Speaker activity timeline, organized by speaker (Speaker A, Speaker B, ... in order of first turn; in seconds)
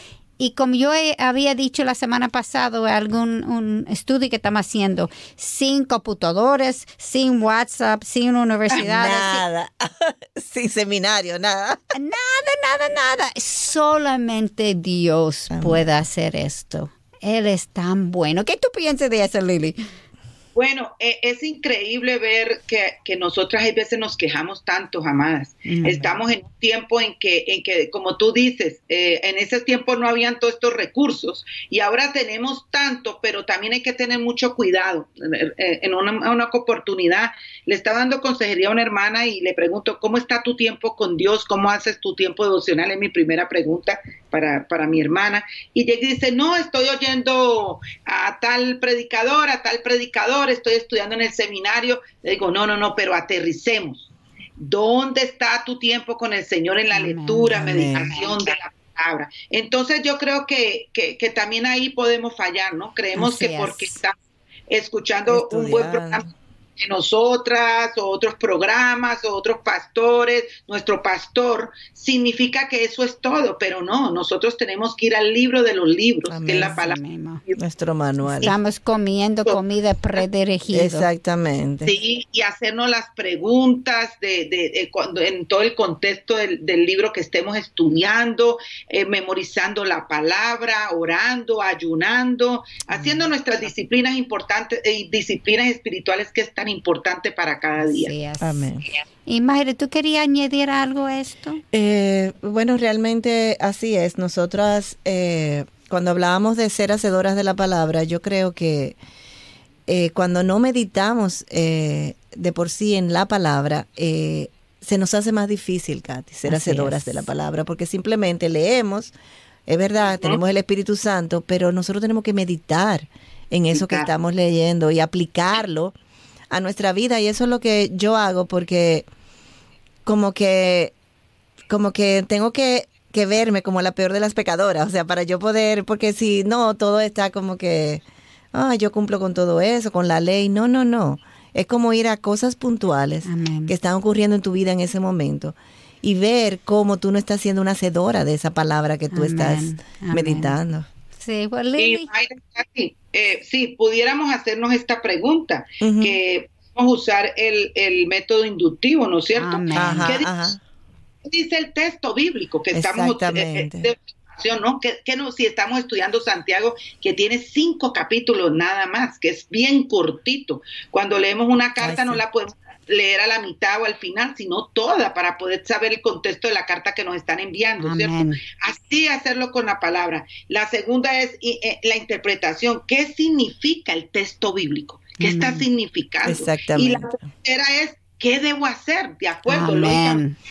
Speaker A: 0.4-9.4, 11.9-19.8, 25.6-26.1, 56.9-58.2, 63.1-64.0, 76.6-77.4, 78.4-81.1, 97.8-98.7, 99.2-101.6, 116.5-117.3, 143.2-143.7, 149.1-150.5, 151.2-152.1, 159.3-160.1, 177.8-178.4, 185.2-185.6, 189.5-190.3
Speaker B: 8.8-11.8, 15.5-15.8, 57.5-58.1, 65.3-66.3, 76.3-76.8, 77.6-78.5, 80.7-82.0, 98.4-98.8, 101.7-109.0, 109.9-119.1, 119.7-126.0, 126.5-129.1, 130.1-130.9, 131.7-150.9, 155.8-156.2, 159.7-160.6, 162.7-163.9, 171.8-172.2, 186.2-187.1
Speaker C: 20.5-64.2, 64.7-77.6, 81.8-98.1, 120.1-120.4, 123.7-124.1, 151.8-160.3, 161.2-190.2